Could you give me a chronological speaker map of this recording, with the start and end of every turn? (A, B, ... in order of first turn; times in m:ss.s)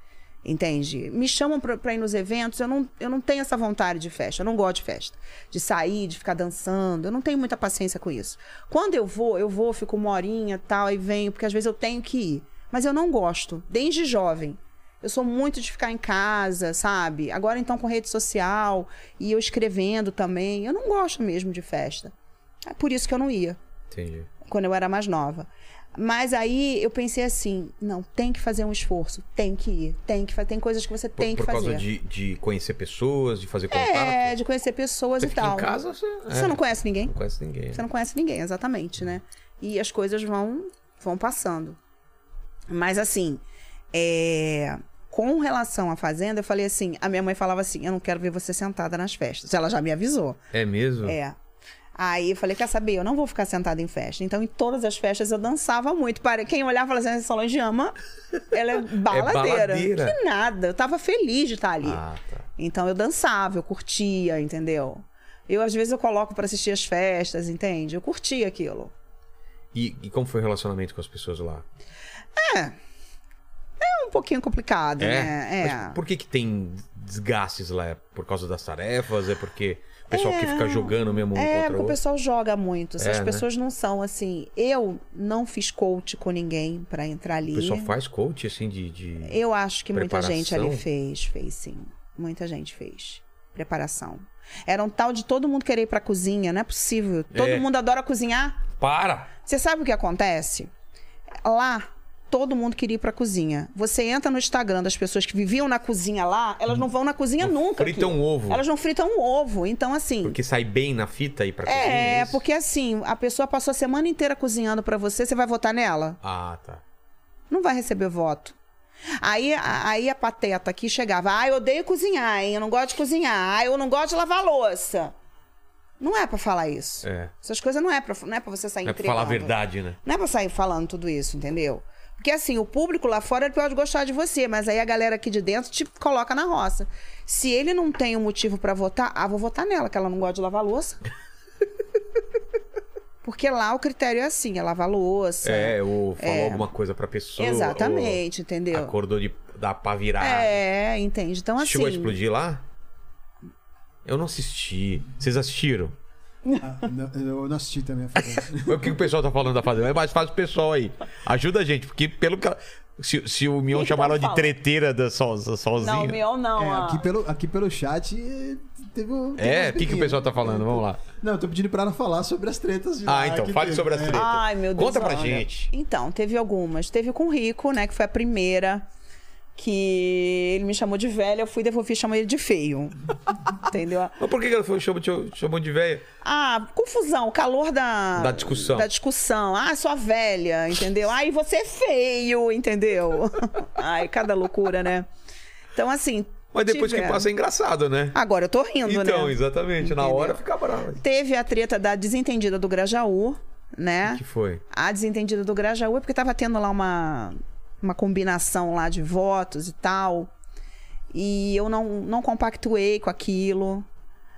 0:00.4-0:22.1 A
0:22.6-0:23.6 A
0:23.9-0:24.3 B
0:24.4-0:31.8 A
0:31.2-0:34.4 B
0:33.7-0:35.7 A
0:35.2-0:37.8 B
0:36.3-0:37.1 A
0:37.7-0:41.8 A
0:42.7-0:43.4 A
0:43.9-0:50.4 A
0:50.5-0:51.2 B
0:51.0-0:51.4 A
0:52.0-0:58.0 A
0:58.5-1:02.0 A
0:59.0-1:00.2 B
1:01.8-1:02.4 B
1:02.6-1:08.9 A
1:09.7-1:11.6 B
1:12.4-1:12.8 A
1:13.8-1:16.0 A
1:15.0-1:22.0 B
1:20.1-1:27.9 A
1:23.0-1:23.4 B
1:27.5-1:29.4 B
1:29.2-1:38.6 A
1:29.9-1:30.8 B
1:37.3-1:37.6 B
1:38.8-1:39.3 B
1:39.4-1:40.7 A
1:41.4-1:50.4 A
1:47.4-1:48.6 B
1:50.2-1:52.4 B
1:51.6-1:56.2 A
1:56.2-1:56.8 B
1:57.5-1:58.5 A
1:59.2-2:05.1 A
2:06.0-2:21.0 A
2:07.0-2:07.3 B
2:08.8-2:10.0 B
2:23.2-2:26.7 A
2:25.4-2:30.6 B
2:27.4-2:28.9 A
2:30.2-2:32.2 A
2:31.6-2:32.6 B
2:34.0-2:35.9 B
2:36.6-2:38.9 C
2:38.5-2:46.2 B
2:43.7-2:44.5 A
2:45.8-2:47.0 A
2:46.6-2:54.2 C
2:49.4-2:51.0 B
2:53.0-2:55.7 B
2:54.1-2:58.8 A
2:59.6-3:02.9 A
3:03.5-3:04.2 A
3:04.2-3:06.0 B
3:06.2-3:15.1 A
3:08.2-3:08.9 B
3:15.7-3:17.3 A
3:16.5-3:18.2 B
3:18.1-3:20.4 A
3:18.8-3:21.0 B
3:21.0-3:24.2 A
3:24.0-3:24.6 B
3:24.7-3:30.3 A
3:31.1-3:33.8 A